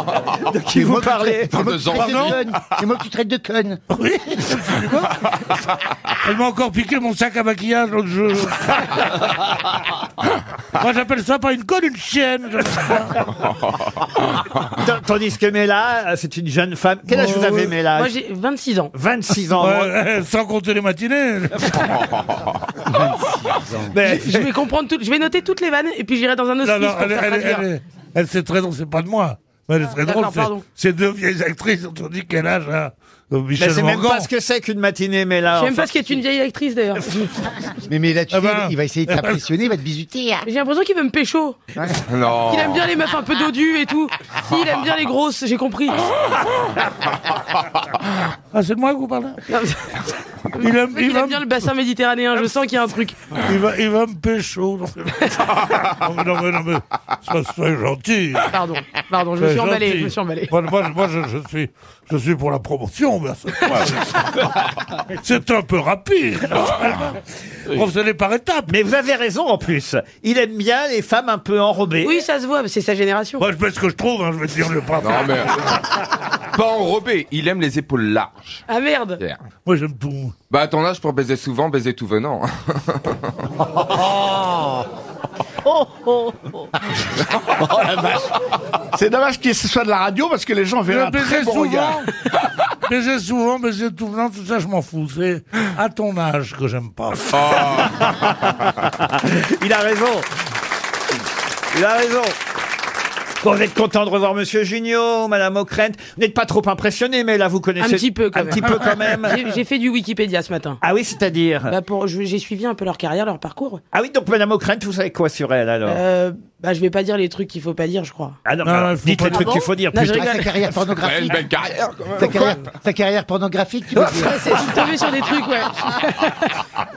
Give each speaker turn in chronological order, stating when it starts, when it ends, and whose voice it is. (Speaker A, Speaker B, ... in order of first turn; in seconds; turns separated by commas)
Speaker A: 0.5-1.6, Speaker B: 0.8-3.8, Speaker C: 1.5-2.4, Speaker D: 1.9-2.4, Speaker D: 3.9-5.2, Speaker D: 6.2-9.3, Speaker D: 10.8-13.2, Speaker A: 14.8-18.1, Speaker D: 17.1-17.7, Speaker E: 17.9-18.9, Speaker A: 18.9-19.9, Speaker D: 19.5-22.0, Speaker C: 22.0-22.4, Speaker A: 23.9-24.5, Speaker E: 24.0-27.7, Speaker D: 26.6-34.3, Speaker E: 30.0-30.6, Speaker A: 33.6-36.2, Speaker E: 35.5-37.3, Speaker B: 37.9-40.5, Speaker D: 38.3-39.4, Speaker E: 40.5-41.6, Speaker C: 42.1-42.9, Speaker E: 42.5-46.0, Speaker D: 48.5-49.4, Speaker E: 49.5-49.8, Speaker E: 50.5-53.2, Speaker D: 50.6-51.5, Speaker D: 53.4-58.5, Speaker E: 58.5-60.5, Speaker D: 59.4-64.5, Speaker D: 65.2-68.7, Speaker A: 68.7-72.2, Speaker E: 72.0-73.5, Speaker D: 73.4-75.5, Speaker C: 75.0-75.6, Speaker C: 76.5-78.6, Speaker E: 78.7-79.2, Speaker D: 79.7-80.3, Speaker C: 80.5-82.5, Speaker F: 87.8-88.1, Speaker F: 89.0-92.0, Speaker D: 90.9-92.1, Speaker D: 92.9-97.8, Speaker C: 97.3-98.0, Speaker A: 99.0-100.3, Speaker A: 101.7-102.4, Speaker A: 103.4-109.5, Speaker E: 107.8-110.8, Speaker A: 110.8-111.8, Speaker E: 111.7-113.8, Speaker A: 113.9-116.0, Speaker E: 115.9-118.4, Speaker A: 118.5-120.4, Speaker D: 118.6-119.7, Speaker E: 119.9-120.6, Speaker B: 120.1-121.4, Speaker C: 121.0-122.5, Speaker B: 122.2-124.5, Speaker E: 124.0-126.5